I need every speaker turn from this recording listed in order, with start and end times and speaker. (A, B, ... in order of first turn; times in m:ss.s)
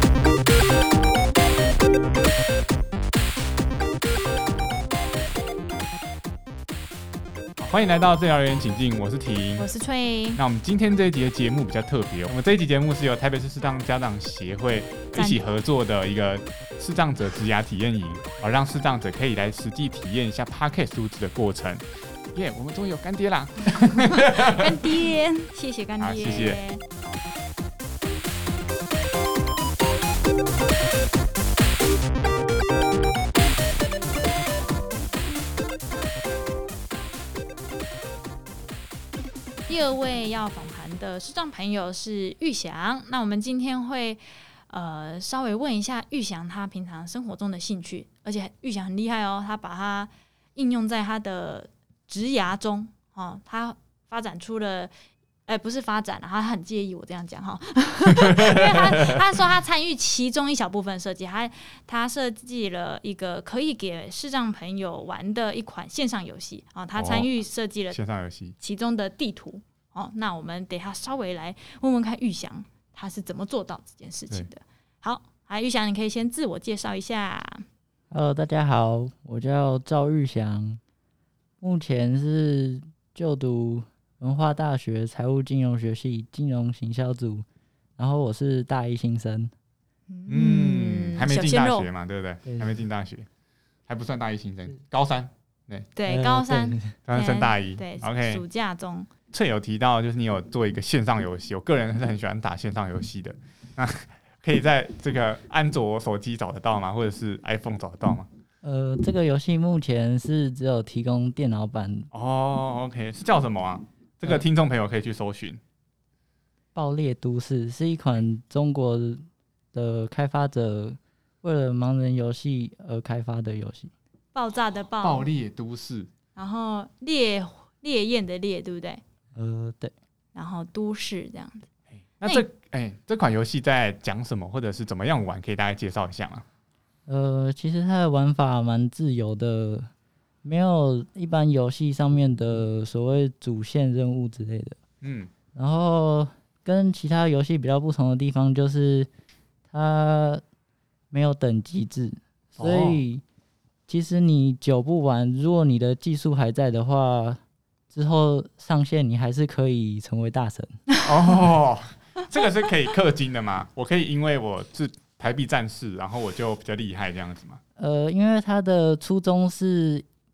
0:07.6-0:09.7 A
0:09.6-0:10.4 B
0:10.4-0:24.7 A
0:15.1-0:15.4 B
0:23.7-0:26.8 B
0:26.0-0:26.6 A
0:39.7-0:54.9 B
0:55.5-1:08.0 B
1:06.9-1:07.3 A
1:07.9-1:08.5 A
1:08.6-1:17.6 B
1:18.1-1:20.8 C
1:21.6-1:27.4 C
1:28.0-1:29.5 C
1:30.1-1:31.9 B
1:30.3-1:33.3 A
1:32.4-1:32.8 C
1:33.9-1:35.9 A
1:35.9-1:39.1 B
1:36.1-1:36.9 C
1:37.1-1:38.4 A
1:39.3-1:48.3 A
1:48.6-1:52.1 C
1:52.1-1:55.6 A
1:56.7-1:59.2 C
1:59.7-2:03.9 C
2:04.3-2:05.3 B
2:05.0-2:06.1 A
2:06.4-2:09.0 B
2:09.3-2:09.9 C
2:10.3-2:11.6 B
2:12.1-2:16.4 A
2:17.1-2:19.9 C
2:20.4-2:24.8 C
2:25.0-2:25.3 A
2:25.5-2:29.1 C
2:29.7-2:30.4 C
2:31.1-2:33.2 C
2:32.6-2:33.0 A
2:33.9-2:40.7 C
2:41.0-2:47.6 A
2:47.8-2:50.0 C